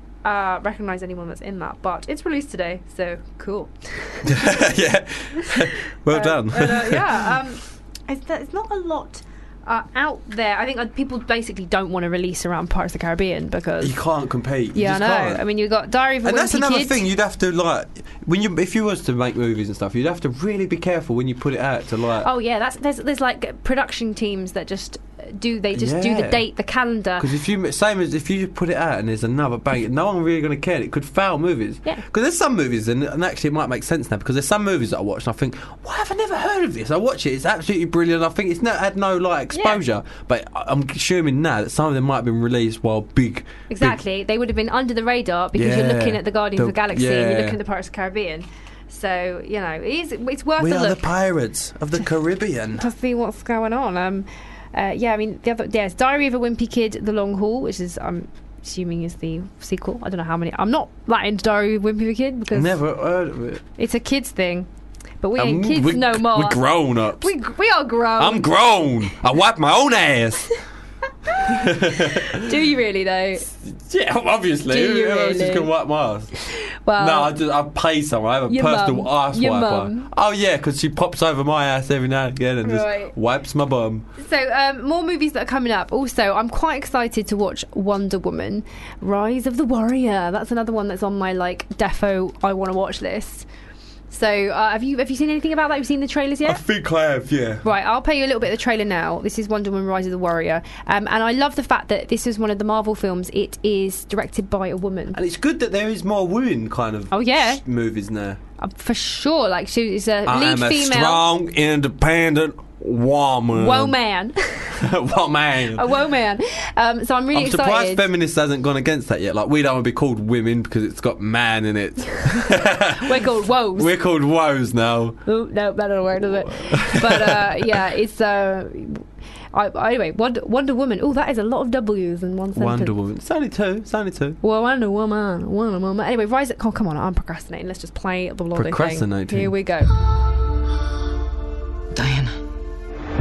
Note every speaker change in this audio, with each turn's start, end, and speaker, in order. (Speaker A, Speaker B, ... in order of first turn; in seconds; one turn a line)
Speaker A: 0.2-4.6
Speaker B: 4.2-7.4
Speaker A: 6.1-14.0
Speaker B: 13.8-15.4
Speaker A: 14.7-17.1
Speaker B: 16.2-22.3
Speaker A: 22.2-27.3
Speaker B: 25.7-26.4
Speaker B: 27.2-44.0
Speaker A: 39.5-39.8
Speaker A: 43.7-51.1
Speaker B: 45.5-47.6
Speaker B: 50.6-52.9
Speaker A: 52.8-62.8
Speaker B: 62.5-63.6
Speaker A: 63.8-64.7
Speaker A: 65.2-68.5
Speaker B: 65.4-67.3
Speaker B: 68.2-70.5
Speaker B: 71.5-72.5
Speaker A: 72.2-73.5
Speaker B: 73.6-76.3
Speaker A: 74.7-75.7
Speaker A: 76.8-77.4
Speaker B: 77.0-84.1
Speaker A: 78.5-80.1
Speaker A: 82.6-83.2
Speaker A: 84.2-93.5
Speaker A: 94.1-96.6
Speaker B: 96.5-97.6
Speaker A: 97.6-105.2
Speaker B: 105.1-108.4
Speaker A: 107.1-107.6
Speaker A: 108.6-111.3
Speaker B: 110.3-114.0
Speaker A: 113.5-114.8
Speaker B: 114.8-115.9
Speaker A: 115.8-118.1
Speaker B: 117.3-123.2
Speaker A: 122.3-123.9
Speaker B: 123.8-125.2
Speaker A: 125.3-133.0
Speaker B: 126.2-127.5
Speaker B: 132.6-134.4
Speaker A: 134.4-139.9
Speaker B: 138.6-139.5